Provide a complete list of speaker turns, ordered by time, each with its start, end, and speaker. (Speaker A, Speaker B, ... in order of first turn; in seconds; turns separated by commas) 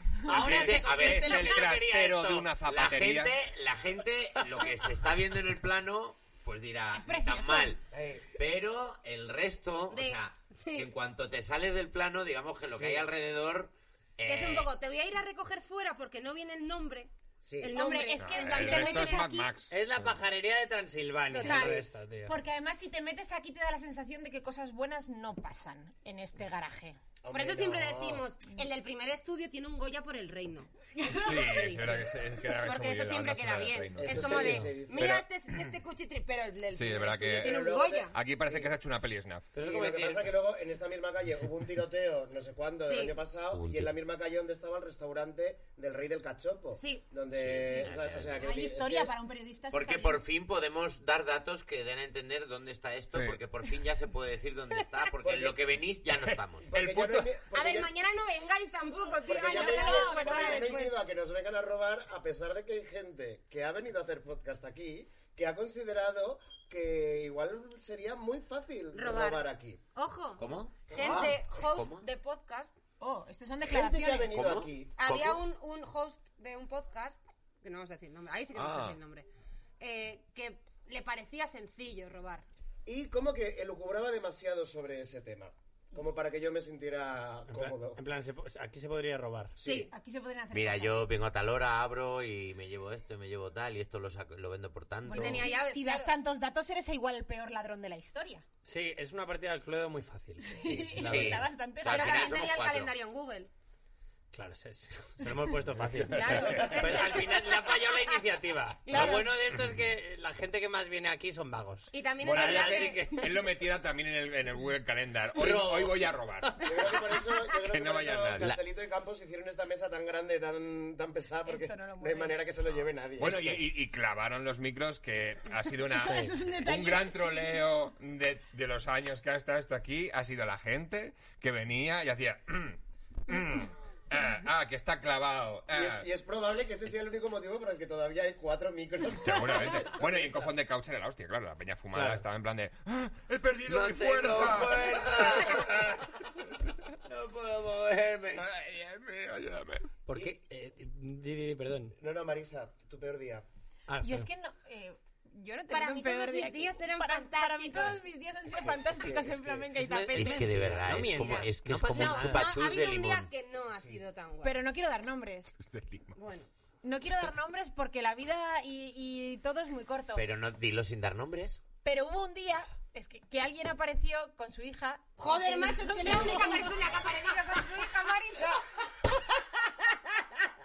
Speaker A: 0.2-2.5, Speaker B: 0.2-1.8, Speaker C: 0.3-3.3, Speaker B: 2.6-14.7, Speaker A: 4.4-4.7, Speaker D: 6.9-7.7, Speaker E: 7.9-8.3, Speaker F: 9.9-10.9, Speaker E: 12.7-13.1, Speaker F: 14.2-19.3, Speaker E: 17.4-17.8, Speaker D: 17.7-19.5, Speaker C: 18.2-20.2, Speaker A: 19.7-22.4, Speaker F: 21.3-21.9, Speaker D: 21.4-21.8, Speaker D: 22.3-27.0, Speaker E: 27.2-28.2, Speaker F: 27.3-38.2, Speaker D: 30.9-31.6, Speaker C: 31.1-35.7, Speaker E: 34.0-35.2, Speaker C: 36.7-39.5, Speaker E: 37.3-38.7, Speaker A: 39.5-40.3, Speaker E: 39.5-49.1, Speaker F: 42.8-43.1, Speaker B: 43.5-43.9, Speaker F: 46.7-47.1, Speaker B: 47.3-48.5, Speaker D: 48.4-50.2, Speaker B: 49.7-56.7, Speaker C: 53.1-53.4, Speaker E: 55.2-55.6, Speaker C: 56.3-57.4, Speaker E: 56.6-57.9, Speaker F: 57.5-60.9, Speaker E: 59.2-69.8, Speaker D: 59.3-60.7, Speaker F: 68.9-72.7, Speaker B: 70.4-72.0, Speaker E: 70.9-71.4, Speaker D: 73.0-74.4, Speaker E: 73.6-74.9, Speaker B: 74.3-75.4, Speaker F: 75.0-79.3, Speaker C: 78.5-79.0, Speaker F: 79.8-82.5, Speaker E: 82.8-88.0, Speaker A: 87.5-89.6, Speaker F: 89.6-89.9, Speaker E: 89.6-89.9, Speaker D: 89.9-91.0, Speaker B: 90.5-95.5, Speaker D: 95.0-98.4, Speaker F: 95.1-96.1, Speaker A: 98.6-101.5, Speaker D: 100.4-102.4, Speaker B: 101.0-102.9, Speaker F: 101.8-103.5, Speaker A: 104.3-113.3, Speaker C: 105.8-106.8, Speaker F: 106.1-108.1, Speaker E: 106.5-107.1, Speaker F: 108.8-109.3, Speaker F: 111.9-113.2, Speaker C: 112.2-117.0, Speaker A: 115.3-116.7, Speaker E: 116.6-123.6, Speaker C: 117.6-118.5, Speaker D: 121.4-122.4, Speaker C: 123.2-136.0, Speaker D: 125.8-127.2, Speaker E: 135.7-140.5, Speaker C: 139.2-146.1, Speaker A: 141.9-142.2, Speaker B: 143.6-145.8, Speaker B: 147.0-148.5, Speaker C: 148.3-149.9, Speaker A: 150.1-151.9, Speaker E: 152.0-153.4, Speaker A: 153.9-154.3, Speaker D: 154.0-160.5, Speaker F: 155.7-158.0, Speaker E: 158.5-159.7, Speaker A: 159.8-162.5, Speaker B: 160.1-163.3, Speaker F: 161.9-164.6, Speaker E: 163.8-164.0, Speaker D: 164.4-165.6, Speaker C: 165.6-166.2, Speaker F: 166.1-166.5, Speaker D: 166.8-170.2, Speaker B: 170.1-171.6, Speaker D: 171.8-178.0, Speaker F: 175.2-178.7